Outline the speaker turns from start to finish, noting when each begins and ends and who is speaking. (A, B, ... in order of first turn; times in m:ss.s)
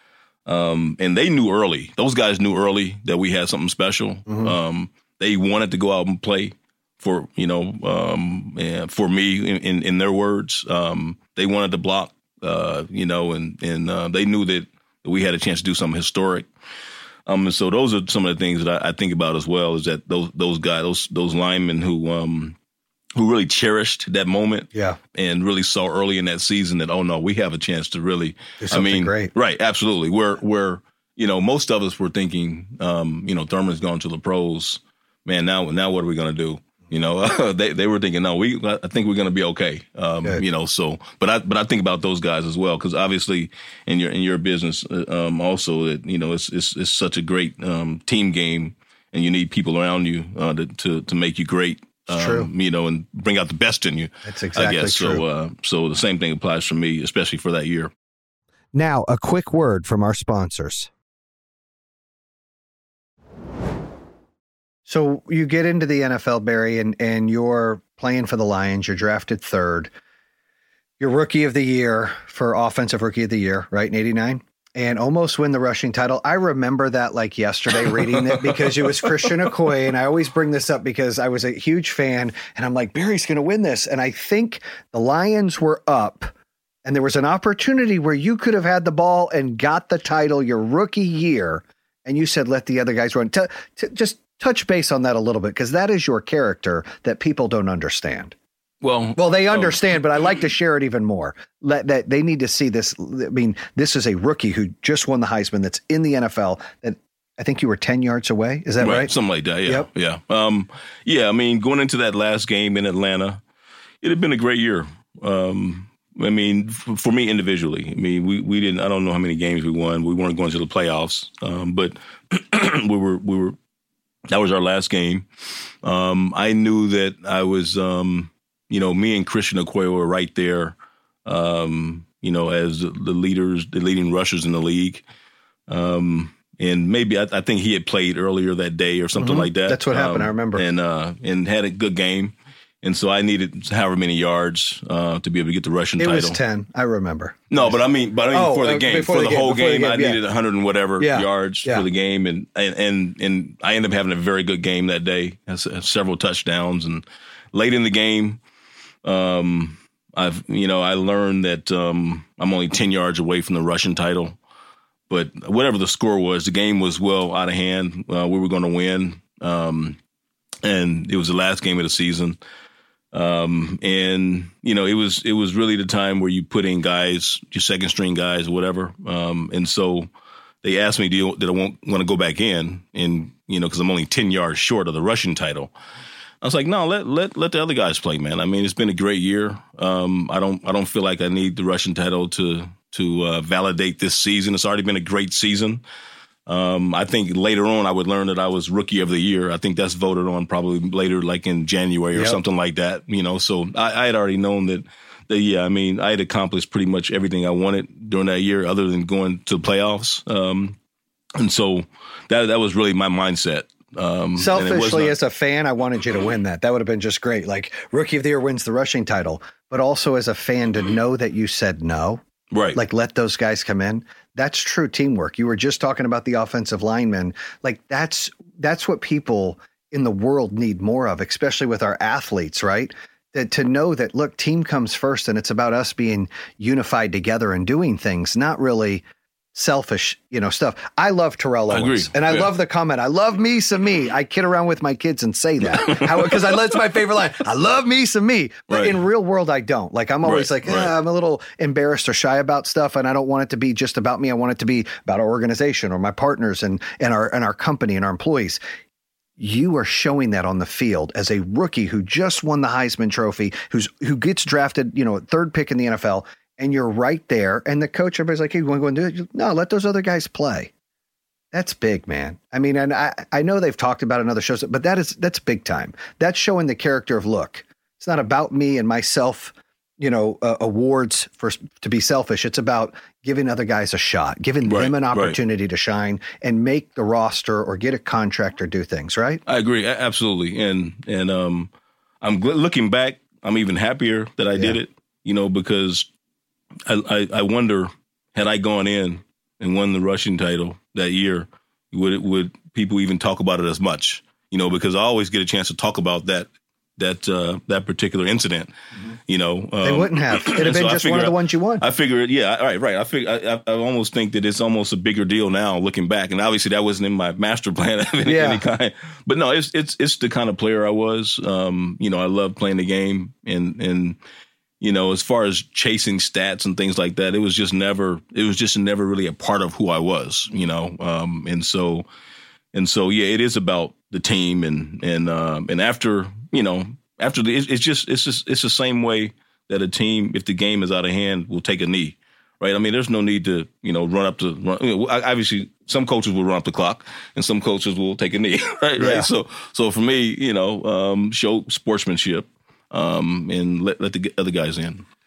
0:00.5-0:16.5 A
0:17.3-0:22.6 A
0:23.2-0:57.9 A
0:24.7-0:25.0 B
0:28.6-0:29.3 B
0:52.1-0:52.5 B
0:54.2-0:55.2 B
0:58.7-1:00.9 B
1:04.9-1:09.9 B
1:11.0-1:26.3 B
1:19.0-1:19.3 A
1:26.8-1:38.3 B
1:38.8-1:40.0 A
1:39.2-1:49.1 B
1:48.8-1:53.4 A
1:54.0-2:03.6 A
2:04.3-2:05.3 A
2:05.8-2:15.0 A
2:15.7-2:26.4 A
2:19.2-2:20.6 B
2:26.0-2:27.7 B
2:27.5-2:38.4 A
2:28.3-2:30.2 B
2:31.0-2:31.9 B
2:39.0-2:44.4 A
2:45.1-2:50.0 A
2:50.6-2:52.4 A
2:53.1-3:00.1 A
3:00.6-3:05.7 A
3:06.4-3:15.8 A
3:16.5-3:30.8 A
3:31.4-3:35.2 A
3:34.4-3:42.2 B
3:42.5-3:42.8 A
3:42.8-3:59.0 B
3:59.5-4:18.6 B
4:01.7-4:02.5 A
4:05.7-4:06.6 A
4:08.7-4:09.0 A
4:10.2-4:10.9 A
4:19.4-4:30.7 B
4:31.5-4:49.4 B
4:44.6-4:45.4 A
4:49.5-4:56.1 A
4:56.8-5:08.7 A
5:09.3-5:24.2 A
5:09.8-5:11.8 B
5:18.2-5:18.6 B
5:24.8-5:32.1 A
5:32.7-5:55.0 A
5:49.0-5:49.3 B